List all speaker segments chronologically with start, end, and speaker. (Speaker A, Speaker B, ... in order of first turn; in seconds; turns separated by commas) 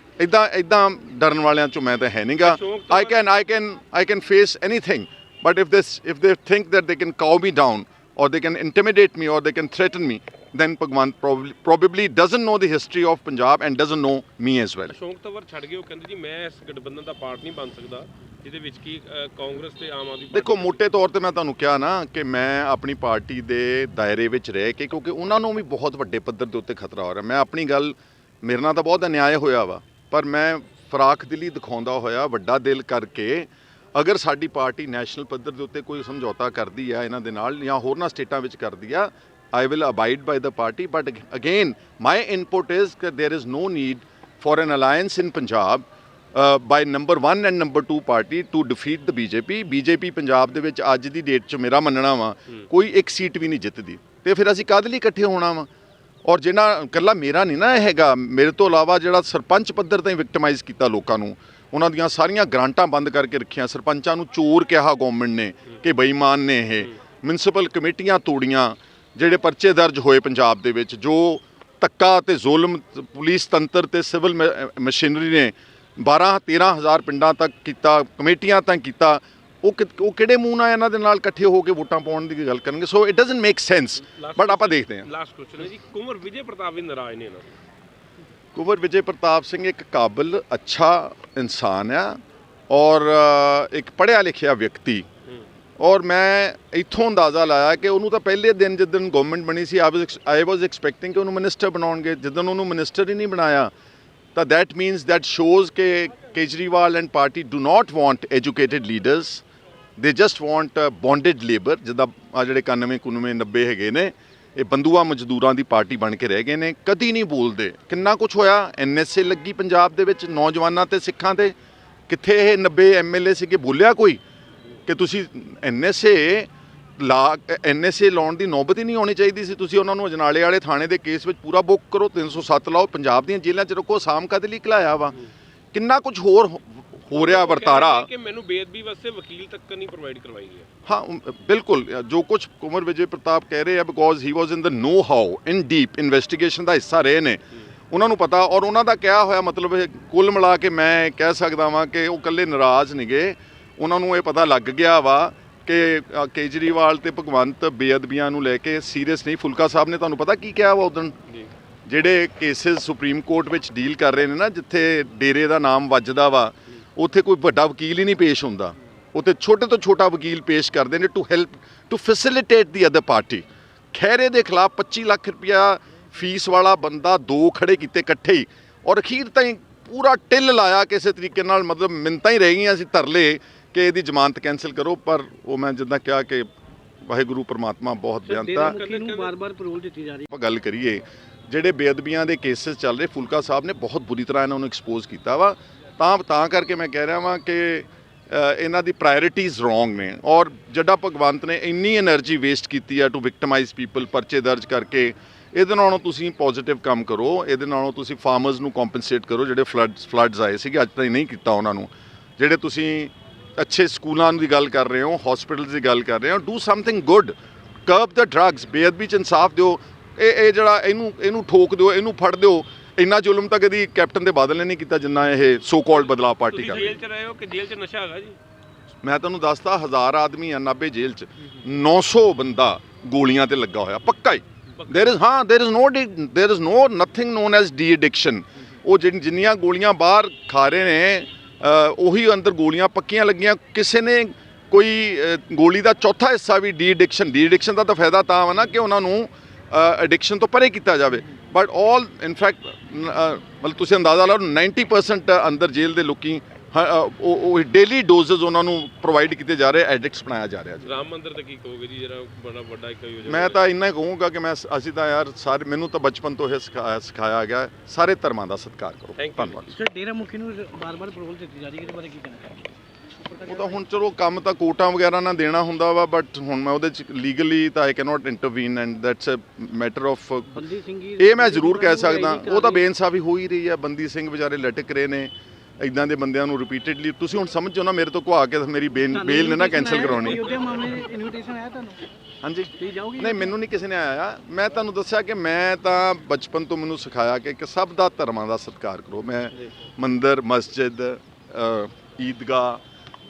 Speaker A: 0.2-14.9, Speaker B: 2.4-3.2, Speaker B: 14.9-20.8, Speaker A: 20.3-55.7, Speaker A: 56.2-85.1, Speaker B: 84.1-87.6, Speaker A: 88.5-95.0, Speaker A: 95.8-103.7, Speaker A: 104.3-109.4, Speaker A: 110.0-121.5, Speaker A: 122.1-124.2, Speaker A: 124.9-135.2, Speaker A: 135.7-138.1, Speaker B: 137.1-140.7, Speaker A: 140.9-161.2, Speaker A: 161.9-186.5, Speaker A: 187.1-188.8, Speaker C: 188.3-190.3, Speaker B: 188.5-189.3, Speaker A: 190.3-217.3, Speaker A: 217.9-227.0, Speaker B: 225.9-228.4, Speaker A: 229.0-260.9, Speaker B: 234.8-235.2, Speaker B: 260.8-263.6, Speaker A: 263.2-269.8, Speaker B: 269.2-269.6, Speaker C: 269.7-272.7, Speaker C: 273.2-273.7, Speaker A: 273.4-280.6, Speaker C: 280.5-282.9, Speaker A: 281.2-290.6, Speaker C: 289.1-292.0, Speaker A: 292.4-302.8, Speaker C: 292.8-293.5